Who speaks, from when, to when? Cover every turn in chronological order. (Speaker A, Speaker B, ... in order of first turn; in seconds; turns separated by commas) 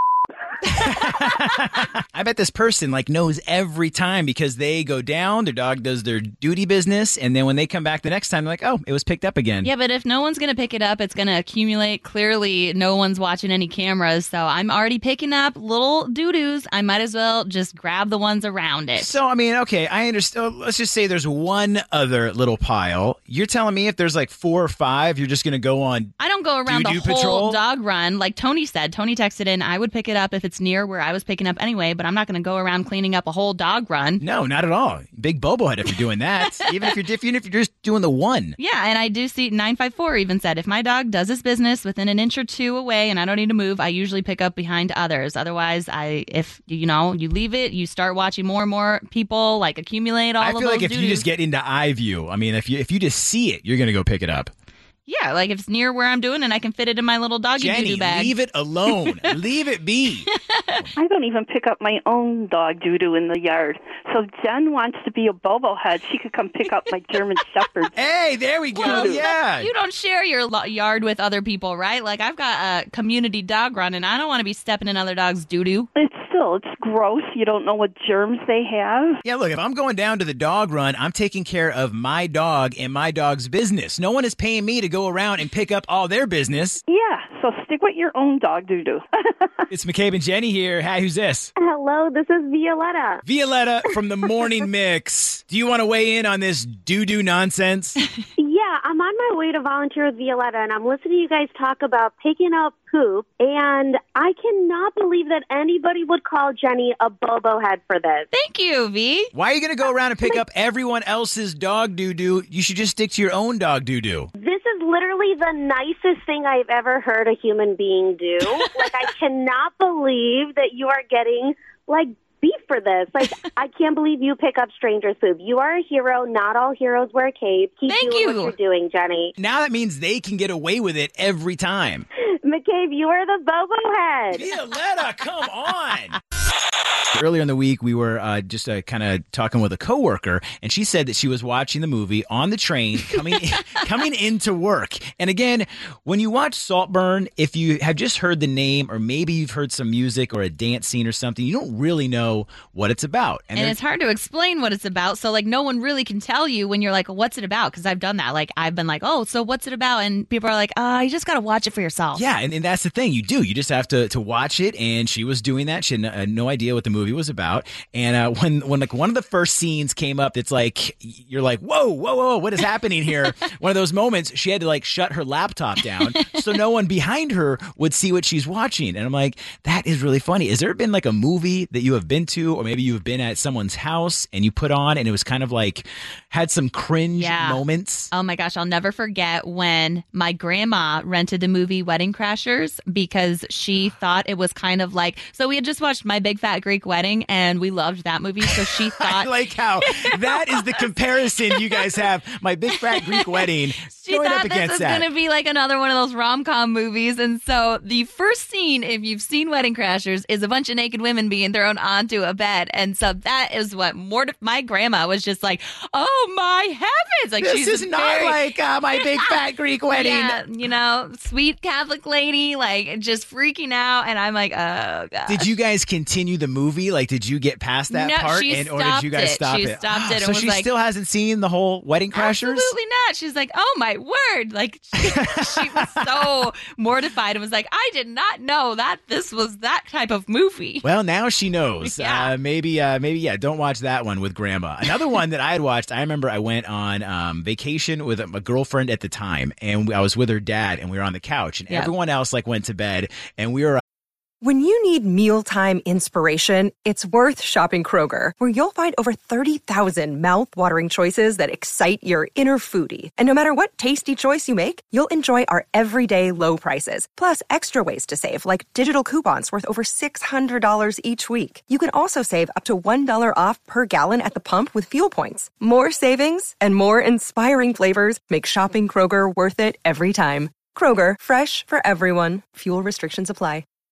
Speaker A: 0.6-9.7, Speaker B: 9.6-19.1, Speaker A: 19.0-26.1, Speaker B: 26.2-34.2, Speaker A: 26.6-27.6, Speaker A: 34.2-38.6, Speaker B: 38.6-51.2, Speaker A: 50.4-54.5, Speaker B: 55.1-58.3, Speaker A: 57.6-60.9, Speaker B: 58.9-59.1, Speaker B: 60.3-60.8, Speaker C: 60.9-67.9, Speaker A: 67.9-69.7, Speaker B: 68.7-75.9, Speaker C: 68.8-69.2, Speaker C: 75.9-79.2, Speaker A: 79.2-86.8, Speaker C: 86.9-89.5, Speaker A: 89.7-91.5, Speaker D: 91.6-93.2, Speaker A: 93.2-98.0, Speaker D: 98.4-108.2, Speaker B: 108.3-109.3, Speaker A: 109.3-114.3, Speaker D: 114.4-129.3, Speaker B: 127.9-128.5, Speaker A: 129.4-132.1, Speaker D: 132.4-134.4, Speaker A: 134.3-136.2, Speaker A: 137.1-153.8, Speaker B: 153.5-162.2, Speaker A: 162.1-188.1, Speaker B: 176.2-176.4, Speaker B: 187.2-200.8, Speaker A: 199.0-205.1, Speaker B: 201.5-201.9, Speaker B: 202.9-218.4, Speaker A: 217.4-220.4, Speaker B: 218.9-219.3, Speaker B: 219.9-225.5, Speaker A: 225.3-232.7, Speaker B: 227.9-230.7, Speaker B: 232.1-240.8, Speaker A: 235.7-236.0, Speaker A: 240.8-253.8, Speaker B: 241.8-242.3, Speaker E: 254.4-283.6